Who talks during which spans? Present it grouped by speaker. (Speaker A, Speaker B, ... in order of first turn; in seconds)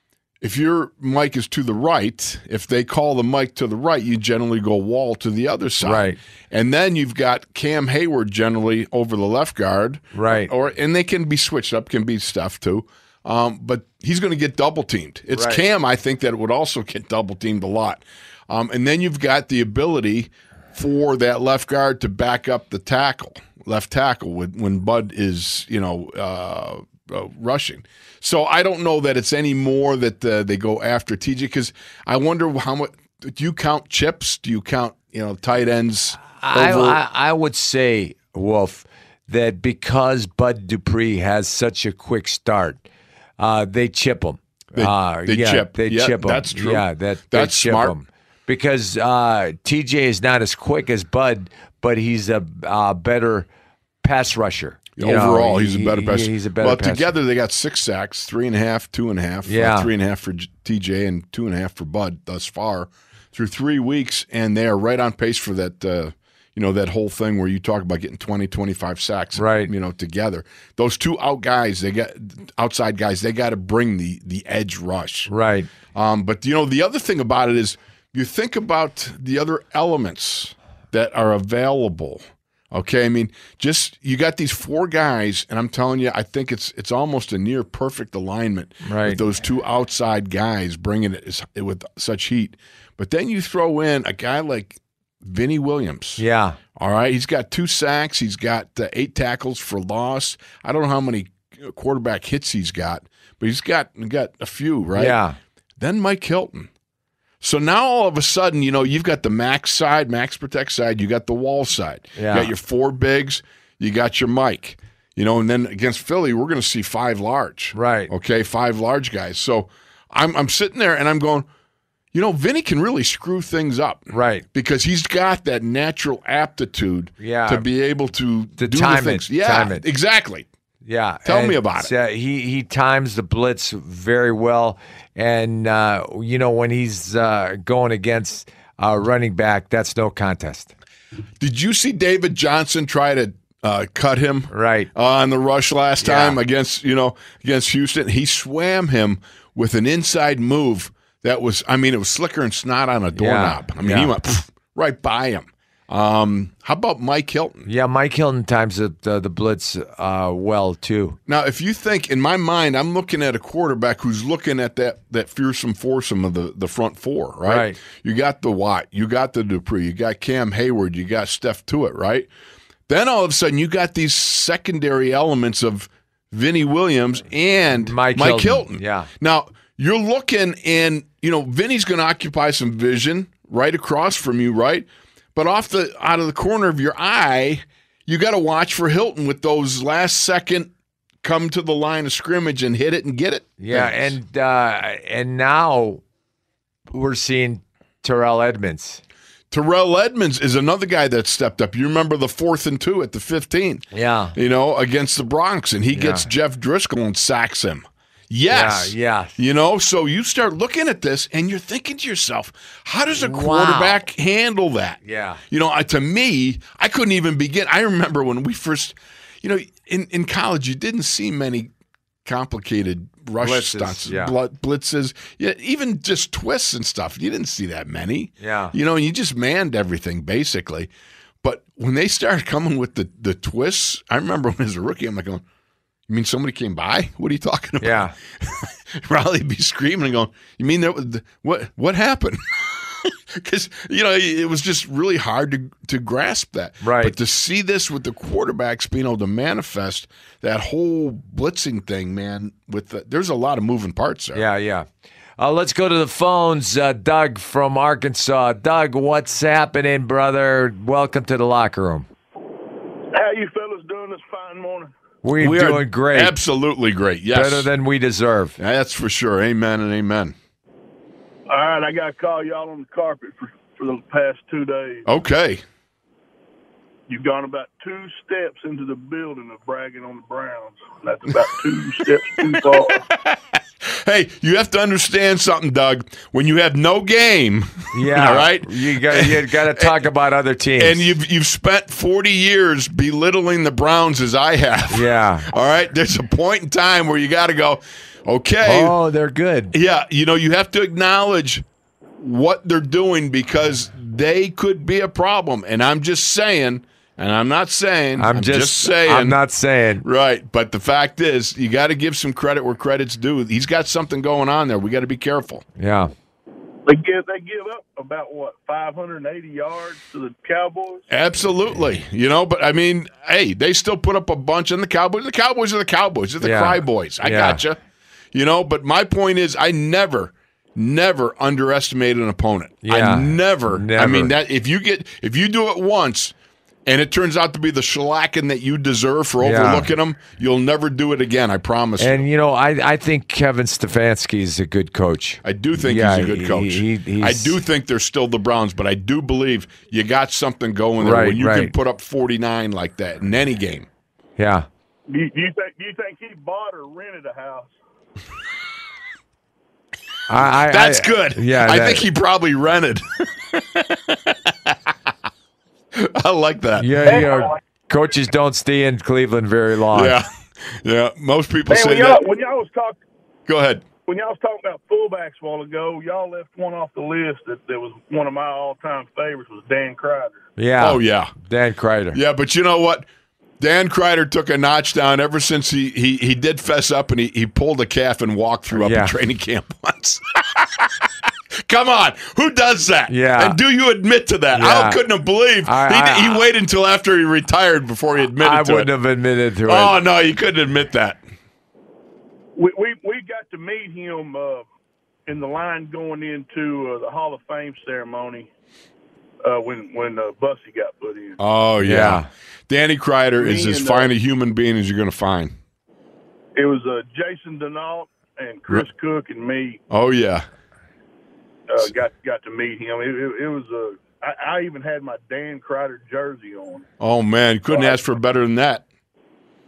Speaker A: 0.4-37.0, 44.8-48.0, 55.0-75.3, 75.9-96.2, 96.8-105.2, 105.8-106.7, 107.4-121.5, 122.1-130.5, 131.2-131.9, 141.4-157.7, 161.3-172.3, 172.9-190.7, 191.2-194.2, 199.5-221.7, 222.2-230.9, 231.4-235.4, 236.1-254.4, 265.4-267.7, 268.6-270.4, 275.1-275.6, 282.5-289.9, 290.8-299.0, 299.7-301.6, 302.2-309.4, 310.0-315.6, 321.1-327.8, 328.3-336.3, 336.9-342.3, 345.4-353.9, 360.6-364.9, 365.9-367.3, 369.9-372.2, 373.5-373.9, 380.8-381.3, 382.1-383.1, 383.6-398.9, 399.6-401.2, 411.4-415.6, 419.9-420.4, 427.0-428.9
Speaker B: 5.8-6.2, 10.1-10.5, 15.3-15.6, 36.3-42.8, 43.4-53.5, 54.0-57.1, 59.5-59.9, 69.4-69.7, 75.3-75.7, 88.8-89.2, 96.2-96.6, 105.0-105.4, 112.2-112.5, 117.7-118.1, 124.1-124.5, 127.2-127.7, 128.6-129.8, 130.8-140.7, 144.5-144.9, 146.0-146.4, 153.2-154.1, 157.7-161.2, 167.5-167.8, 177.8-179.1, 193.6-196.0, 196.9-199.0, 203.9-204.3, 205.9-206.3, 208.5-209.3, 213.2-214.0, 215.0-215.4, 223.4-224.3, 228.4-228.8, 237.8-238.2, 246.8-247.1, 254.3-254.9, 255.4-262.1, 265.2-266.3, 267.3-268.6, 287.9-291.1, 294.9-295.5, 298.6-299.7, 308.2-310.1, 315.8-316.1, 326.4-327.6, 332.8-334.3, 339.4-339.9, 342.0-347.6, 351.0-351.7, 354.4-354.7, 360.3-362.1, 366.8-370.2, 380.6-382.2, 388.7-389.1, 393.1-393.6, 394.5-395.0, 395.6-396.4, 398.4-400.0, 411.8-412.3
Speaker C: 263.1-264.9, 271.5-275.1, 277.1-283.0, 316.9-321.0, 355.1-357.7, 367.1-367.6, 371.7-373.0, 374.1-380.4, 402.6-404.7, 405.3-408.5, 409.4-411.4, 413.4-414.1, 416.6-419.8, 421.7-426.9, 427.7-428.0